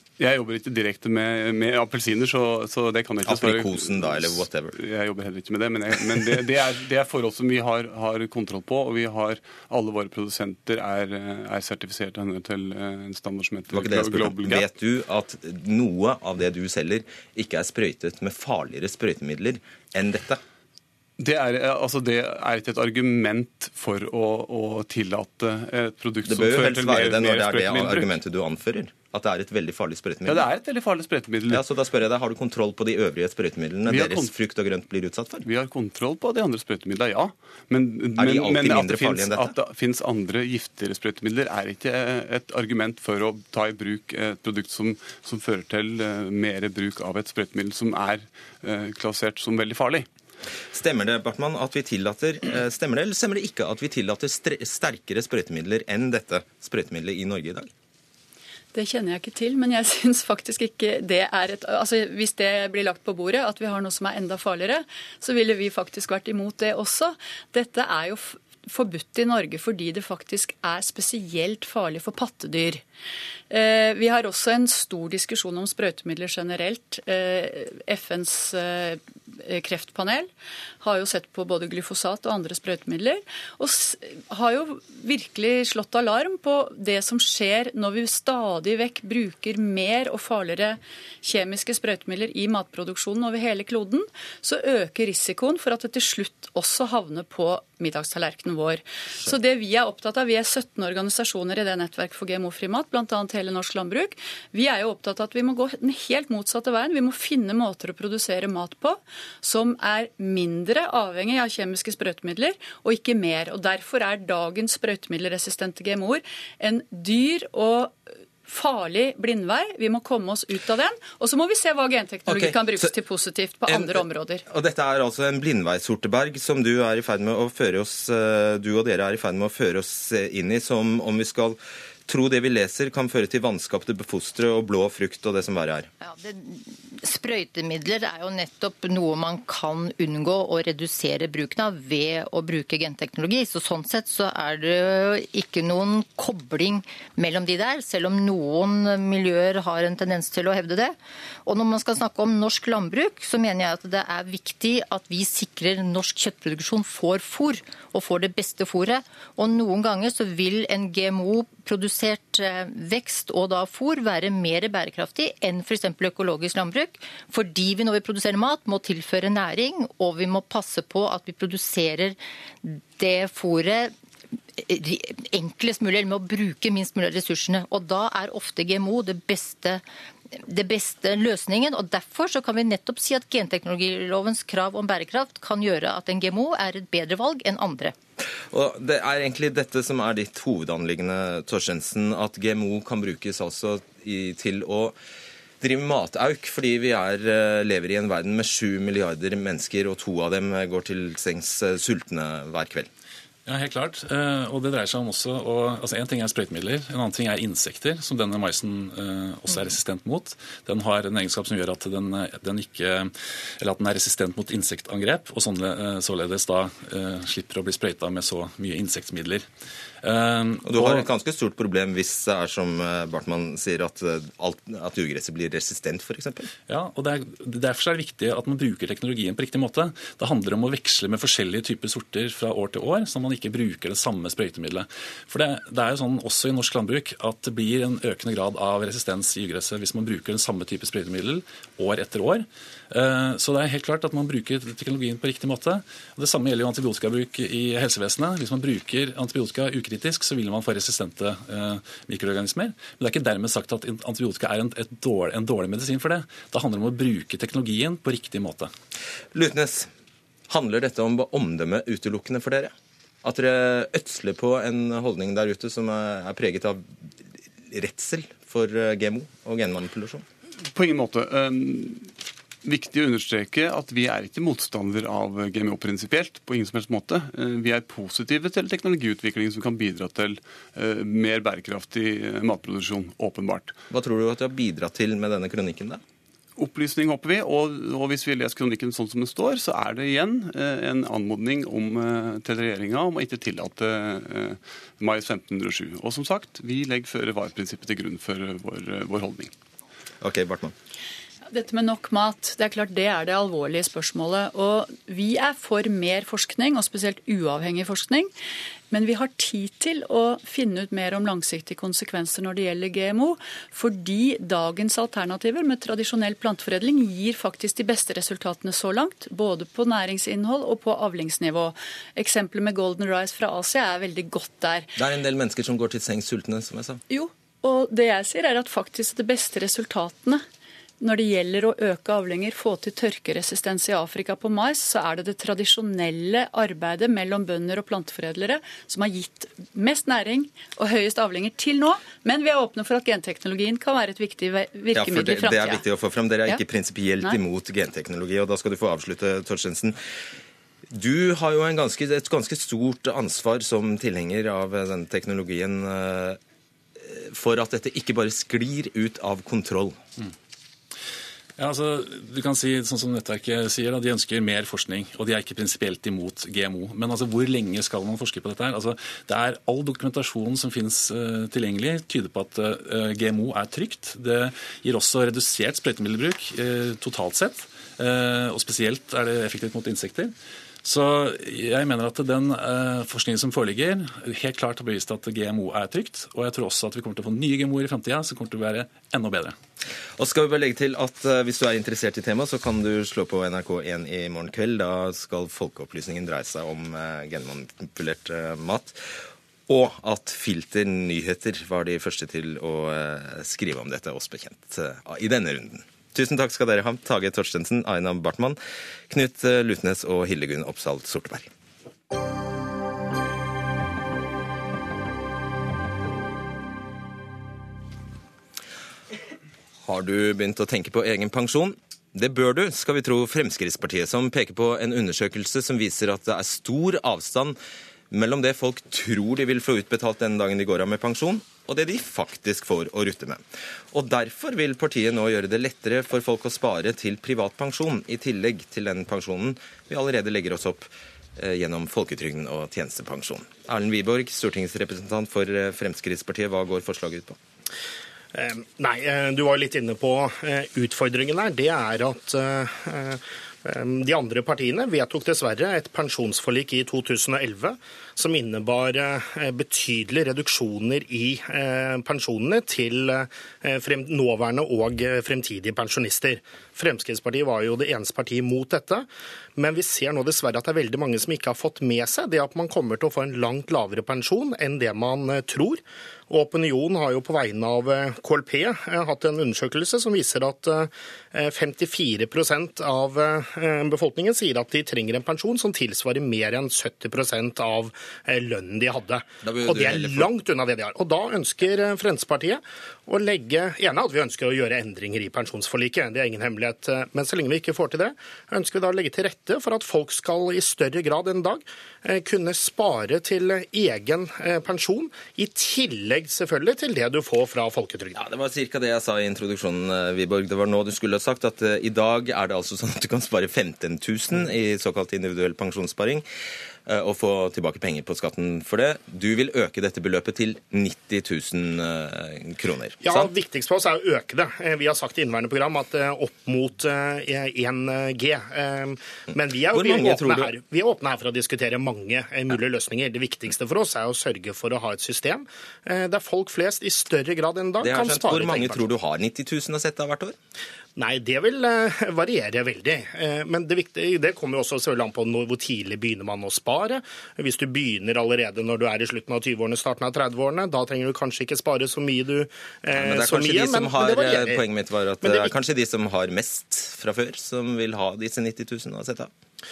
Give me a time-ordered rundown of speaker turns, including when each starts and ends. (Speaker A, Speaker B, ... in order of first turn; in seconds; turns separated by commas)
Speaker A: 0.2-14.7, Speaker B: 3.2-4.8, Speaker B: 13.7-20.4, Speaker A: 21.2-28.2, Speaker B: 26.2-30.5, Speaker A: 30.2-31.6, Speaker B: 31.5-35.5, Speaker A: 33.9-34.3, Speaker A: 35.4-50.1, Speaker B: 38.2-39.5, Speaker B: 50.7-57.7, Speaker C: 58.7-72.8, Speaker C: 73.5-124.4, Speaker B: 122.3-122.9, Speaker B: 123.7-135.9, Speaker D: 136.0-173.9, Speaker D: 174.6-187.9, Speaker B: 188.5-195.0, Speaker B: 195.6-202.9, Speaker E: 203.4-219.4, Speaker E: 220.0-221.1, Speaker B: 220.6-226.5, Speaker E: 226.7-258.7, Speaker B: 259.3-259.9, Speaker B: 260.5-262.7, Speaker B: 263.2-266.8, Speaker B: 267.7-270.2, Speaker A: 270.7-283.8, Speaker B: 283.9-286.0, Speaker A: 286.6-299.5, Speaker B: 300.2-300.7, Speaker C: 301.5-308.3, Speaker C: 308.9-324.9, Speaker B: 325.0-327.0, Speaker C: 327.1-330.4, Speaker C: 331.0-345.8, Speaker B: 344.9-350.0, Speaker B: 350.9-356.4, Speaker B: 357.0-360.0, Speaker E: 361.6-380.3, Speaker E: 380.8-389.5, Speaker B: 390.2-399.0, Speaker B: 399.7-408.6, Speaker B: 409.1-411.5, Speaker B: 419.8-427.6, Speaker B: 428.1-447.4, Speaker F: 448.3-508.2, Speaker B: 489.4-490.3, Speaker B: 508.1-516.2, Speaker B: 516.9-523.3, Speaker F: 523.0-538.9, Speaker B: 529.7-530.5, Speaker B: 537.8-540.4, Speaker F: 541.0-554.6, Speaker B: 552.9-559.3, Speaker F: 555.2-555.5